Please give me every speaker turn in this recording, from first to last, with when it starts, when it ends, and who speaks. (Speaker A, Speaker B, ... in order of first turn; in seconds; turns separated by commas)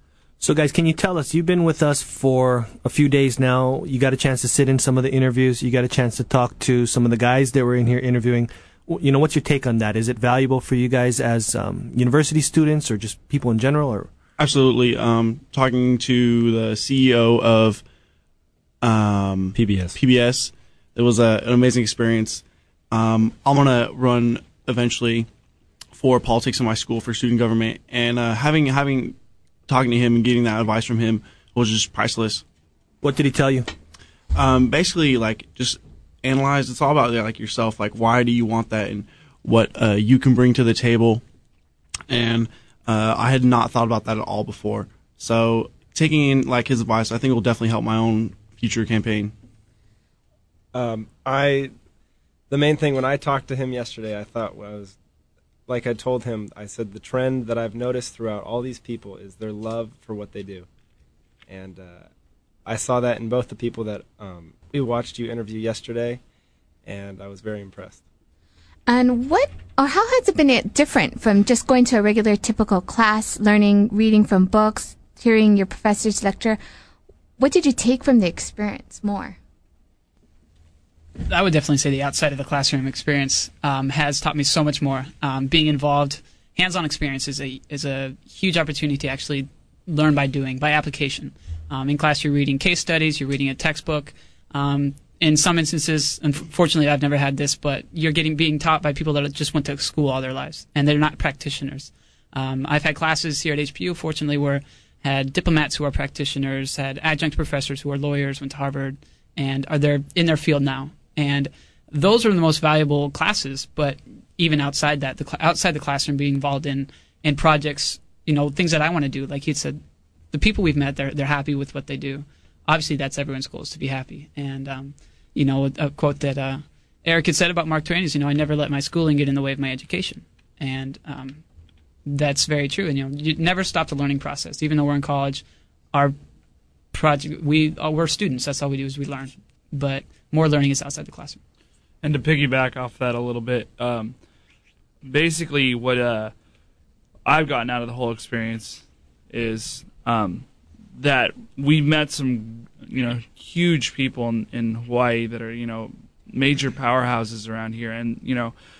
Speaker A: 0.4-14.1, Speaker B: 14.4-17.8, Speaker B: 18.8-25.3, Speaker C: 19.6-20.0, Speaker B: 25.9-29.1, Speaker B: 29.7-32.4, Speaker A: 33.0-33.7, Speaker B: 34.4-41.2, Speaker B: 42.1-49.3, Speaker C: 50.7-51.7, Speaker C: 52.5-55.0, Speaker C: 55.7-60.7, Speaker C: 61.5-62.1, Speaker C: 62.7-66.2, Speaker C: 66.9-68.0, Speaker D: 68.9-76.6, Speaker D: 77.4-79.4, Speaker E: 81.3-119.8, Speaker E: 120.3-131.4, Speaker E: 132.1-136.2, Speaker E: 136.9-141.4, Speaker F: 142.0-144.2, Speaker F: 145.0-146.3, Speaker F: 147.3-158.5